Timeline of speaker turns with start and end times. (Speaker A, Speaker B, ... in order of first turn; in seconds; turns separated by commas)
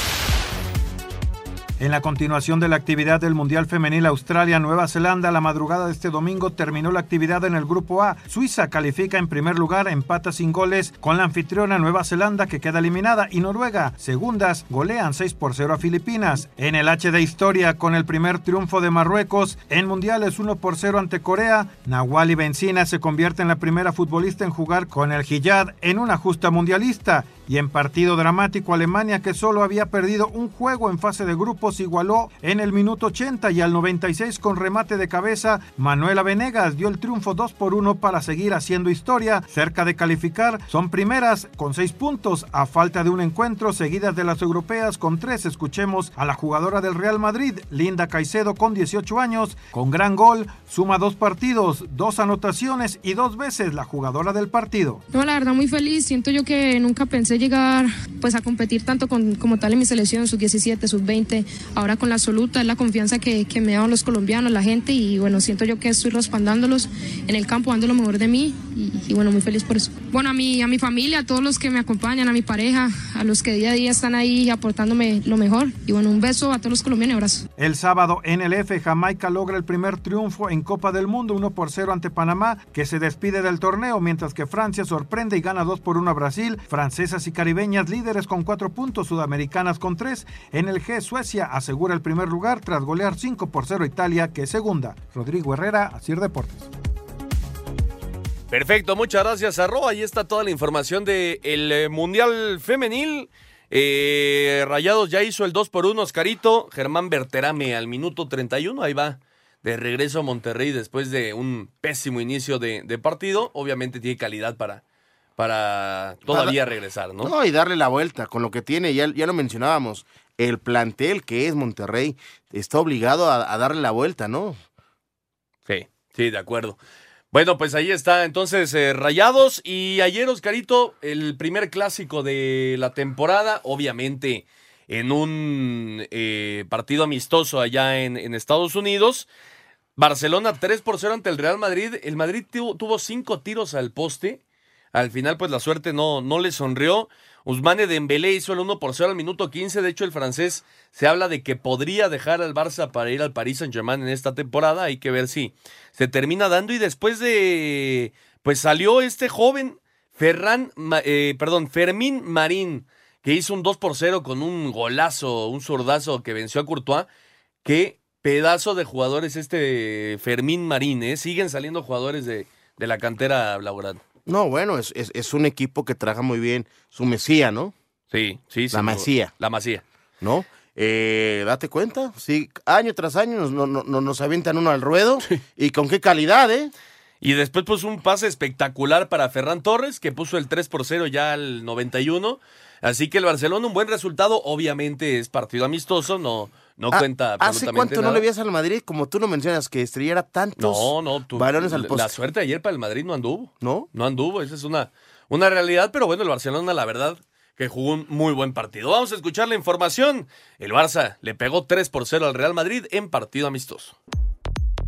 Speaker A: 1.8-55.0, Speaker B: 55.1-77.5, Speaker A: 77.6-96.7, Speaker C: 98.5-114.8, Speaker C: 115.4-117.3, Speaker D: 116.3-116.6, Speaker D: 117.2-124.6, Speaker C: 125.7-126.8, Speaker C: 127.3-139.3, Speaker C: 140.0-144.4, Speaker C: 144.9-167.1, Speaker C: 167.7-174.0, Speaker D: 174.3-177.7, Speaker C: 178.1-179.8, Speaker D: 178.7-179.3, Speaker D: 180.2-186.7, Speaker C: 187.2-198.2, Speaker D: 196.9-202.1, Speaker C: 200.6-214.0, Speaker D: 203.6-203.9